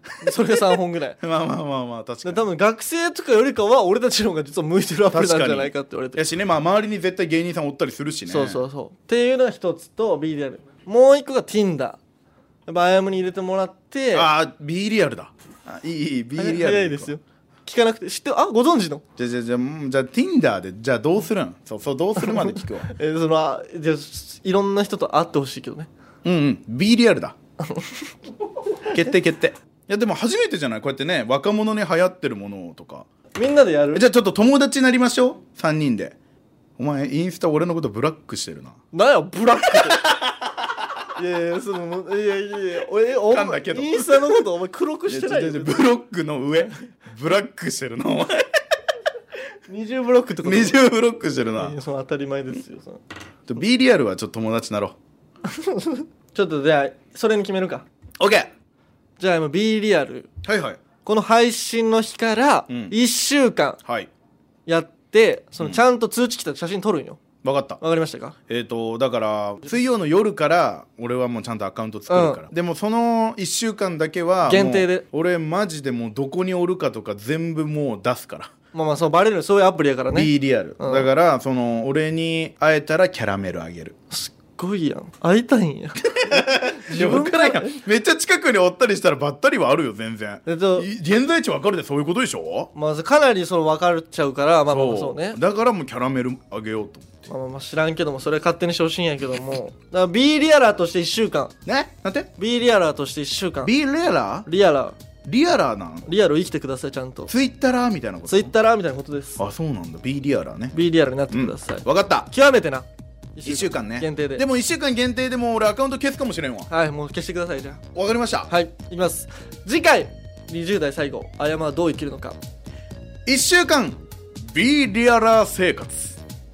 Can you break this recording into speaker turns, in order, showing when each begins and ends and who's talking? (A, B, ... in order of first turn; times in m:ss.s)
0:00.2-0:01.2 A
0:00.2-0:00.5 B
0:01.2-0:02.5 B
0:02.2-0:06.2 A
0:05.1-0:08.6 B
0:08.3-0:12.0 A
0:12.7-0:14.3 A
0:14.1-0:17.1 B
0:16.4-0:19.0 A
0:19.2-0:22.9 B
0:22.2-0:25.9 A
0:26.2-0:27.4 B
0:28.9-0:33.1 B
0:33.4-0:34.0 A
0:33.9-0:36.2 B
0:36.8-0:38.8 B
0:38.9-0:40.0 A
0:39.7-0:40.7 B
0:41.2-0:45.9 A
0:43.3-0:44.5 B
0:45.1-0:48.6 B
0:49.7-0:50.8 A
0:50.4-0:51.8 B
0:51.6-0:53.0 A
0:53.5-0:55.0 B
0:55.5-0:57.8 A
0:58.2-0:58.5 B
0:59.2-1:00.3 A
1:00.4-1:00.8 B
1:01.0-1:03.8 A
1:02.7-1:03.0 B
1:03.8-1:04.1 B
1:04.7-1:07.2 A
1:07.4-1:07.8 B
1:07.8-1:08.4 A
1:08.5-1:18.5 B
1:12.1-1:12.4 A
1:14.4-1:15.0 A
1:18.7-1:21.1 A
1:20.1-1:24.0 B
1:24.1-1:27.8 A
1:26.2-1:32.7 B
1:30.5-1:30.9 A
1:32.7-1:35.4 A
1:34.7-1:37.3 B
1:37.3-1:41.5 A
1:41.7-1:42.3 B
1:42.4-1:43.7 A
1:43.6-1:44.5 B
1:44.5-1:45.0 A
1:45.2-1:46.1 B
1:46.1-1:47.3 A
1:47.3-1:48.5 B
1:48.3-1:49.4 A
1:49.4-1:50.8 B
1:50.7-1:54.4 A
1:51.3-1:52.3 B
1:53.4-1:56.7 B
1:56.7-1:57.8 A
1:57.9-1:58.5 B
1:58.5-2:02.4 A
2:03.3-2:06.2 B